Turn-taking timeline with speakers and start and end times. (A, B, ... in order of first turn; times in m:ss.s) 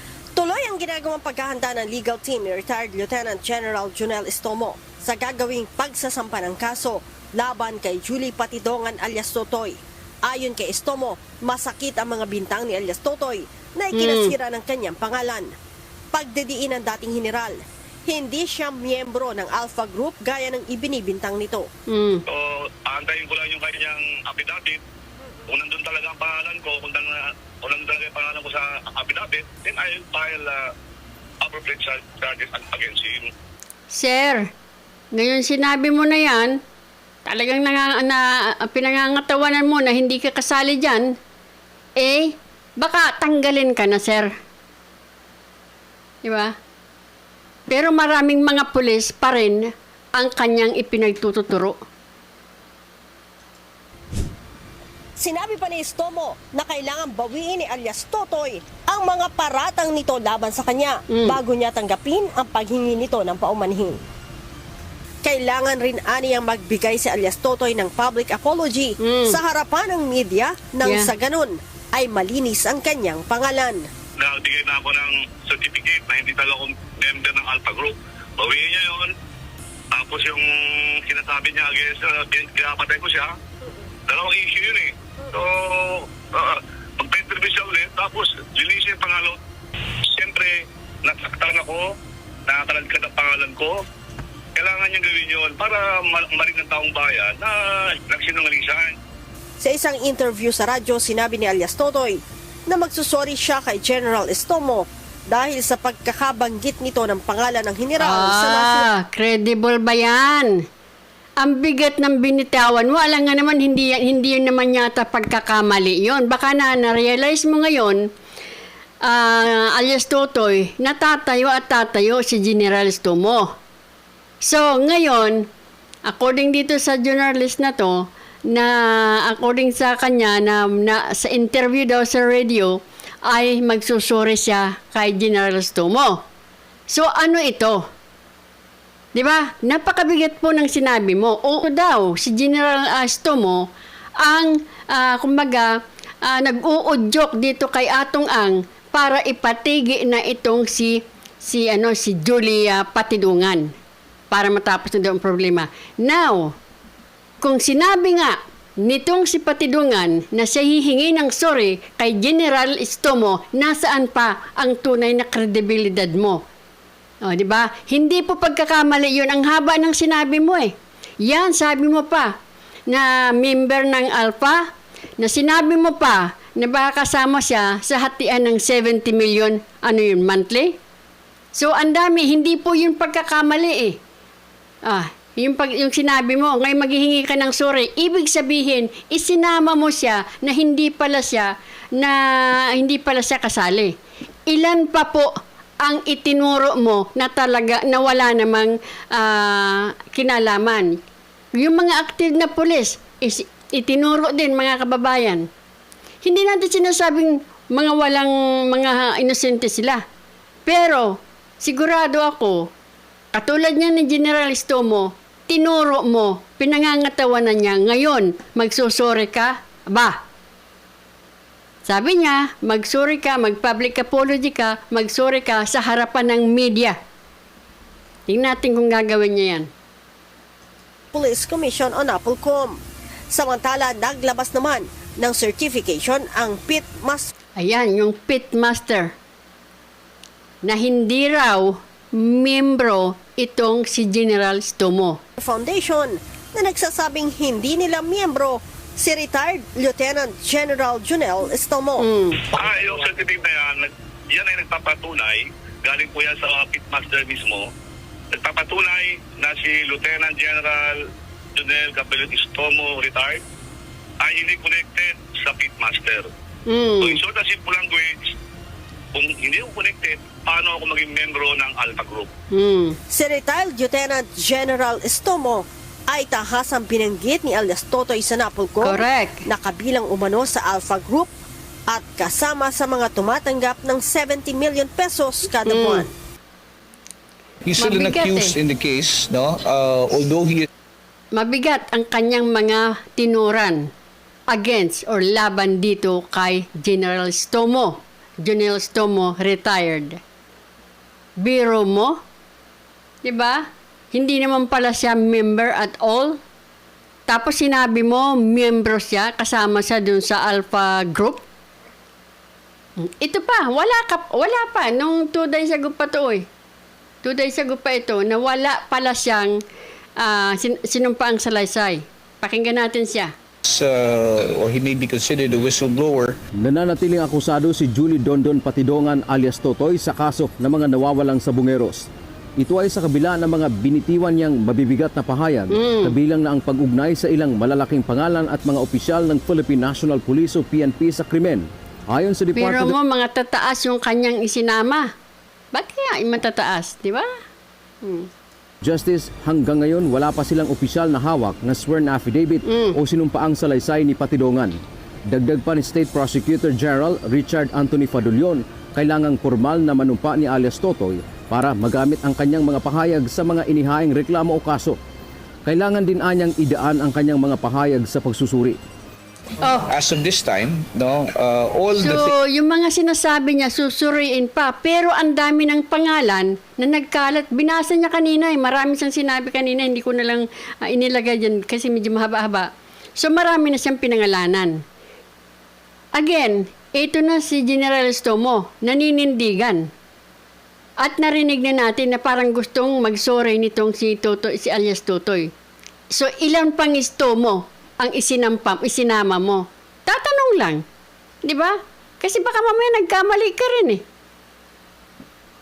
0:00.4-0:15.5 A
0:13.9-0:14.3 B
0:16.1-0:21.7 A
0:21.9-0:22.2 B
0:22.3-0:24.8 C
0:25.5-0:30.6 C
0:31.4-0:33.3 C
0:33.9-0:34.5 B
0:35.1-0:36.6 B
0:37.2-0:41.1 B
0:42.0-0:44.3 B
0:46.2-0:46.6 B
0:47.7-0:51.8 B
0:55.2-1:04.0 A
1:01.1-1:01.4 B
1:05.2-1:13.9 A
1:09.0-1:09.4 B
1:10.8-1:11.1 B
1:14.2-1:19.1 C
1:19.9-1:23.4 C
1:24.1-1:29.4 C
1:30.2-1:30.5 C
1:31.0-1:31.8 C
1:32.5-1:33.8 C
1:34.6-1:38.9 C
1:39.6-1:48.9 A
1:48.0-1:50.5 B
1:51.4-1:58.1 B
1:59.0-2:03.5 B
2:04.4-2:05.5 B
2:06.1-2:16.2 B
2:16.9-2:17.9 B
2:19.1-2:23.7 B
2:24.2-2:33.7 B
2:34.3-2:36.6 B
2:37.4-2:46.4 B
2:47.2-2:52.3 B
2:52.9-2:54.7 B
2:55.2-3:00.8 B
3:01.5-3:04.0 B
3:04.8-3:14.0 B
3:14.5-3:15.3 B
3:15.8-3:21.0 B
3:21.5-3:25.5 B
3:26.2-3:30.0 B
3:30.7-3:32.7 B
3:33.3-3:40.2 B
3:41.8-3:47.0 B
3:48.3-3:49.7 B
3:51.1-3:52.8 A
3:53.3-3:57.3 A
3:57.6-3:59.1 B
4:00.6-4:05.2 B
4:05.4-4:13.0 A
4:12.0-4:12.5 B
4:12.5-4:17.7 C
4:18.3-4:21.0 C
4:21.6-4:23.4 C
4:24.2-4:26.3 C
4:26.7-4:27.2 B
4:27.0-4:28.1 C
4:29.1-4:32.3 C
4:32.5-4:33.0 B
4:33.1-4:41.3 A
4:38.8-4:39.4 B
4:41.9-4:46.1 A
4:45.7-4:46.1 B
4:47.7-4:50.7 D
4:47.8-4:48.6 B
4:51.3-4:53.9 B
4:54.5-5:00.2 B
5:01.4-5:02.2 B
5:03.2-5:06.4 B
5:07.3-5:11.4 B
5:13.0-5:16.5 B
5:17.2-5:19.6 B
5:20.2-5:23.3 B
5:23.7-5:26.4 D
5:26.6-5:43.0 E
5:35.7-5:36.2 B
5:42.6-5:45.1 B
5:45.7-5:47.3 B
5:48.0-5:48.3 B
5:48.8-5:54.8 E
5:52.6-5:53.0 B
5:55.3-6:05.0 E
6:05.6-6:08.8 E
6:09.6-6:09.9 B
6:09.8-6:12.3 D
6:12.0-6:24.8 B
6:26.2-6:29.9 B
6:31.0-6:35.5 B
6:36.1-6:40.8 B
6:41.4-6:44.0 B